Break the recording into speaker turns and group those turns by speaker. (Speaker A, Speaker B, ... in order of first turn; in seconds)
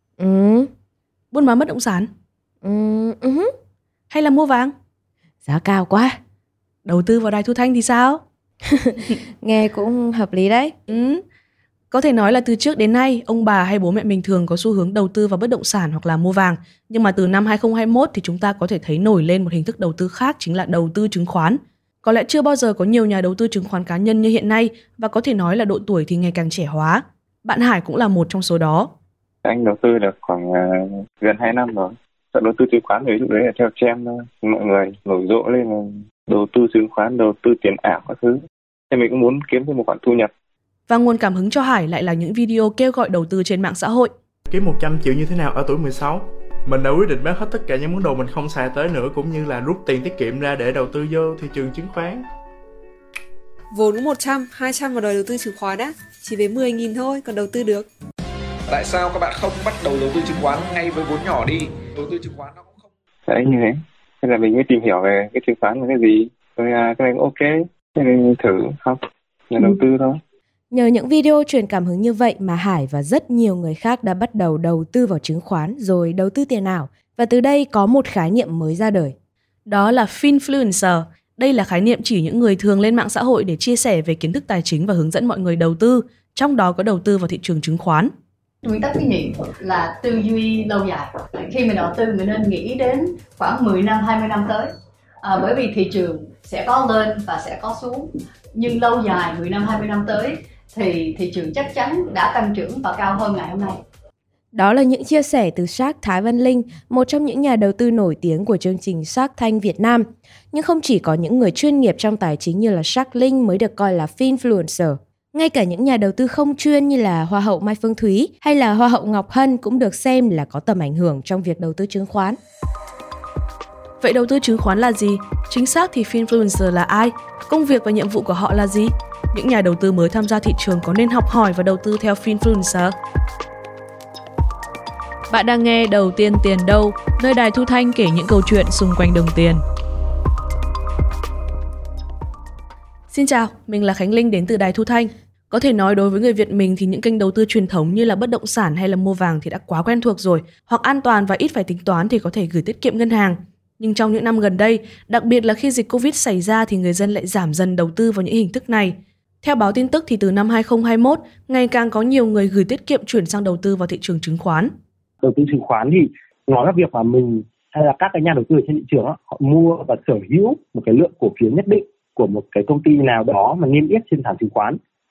Speaker A: 0.2-0.7, 2.6-3.5, 5.4-6.2, 8.7-10.8, 70.7-79.2, 104.5-122.4
Speaker B: 1.3-2.1, 4.1-4.7, 6.8-8.2, 10.9-11.2, 11.9-28.9, 40.9-44.1, 79.7-88.1, 124.0-132.9, 135.3-139.6, 143.1-164.7
Speaker C: 29.4-38.4, 38.9-40.3, 63.3-70.2
Speaker D: 44.5-52.2
Speaker E: 53.7-57.9
Speaker F: 58.7-62.9
Speaker G: 88.6-94.7, 95.2-103.8
Speaker H: 165.2-174.8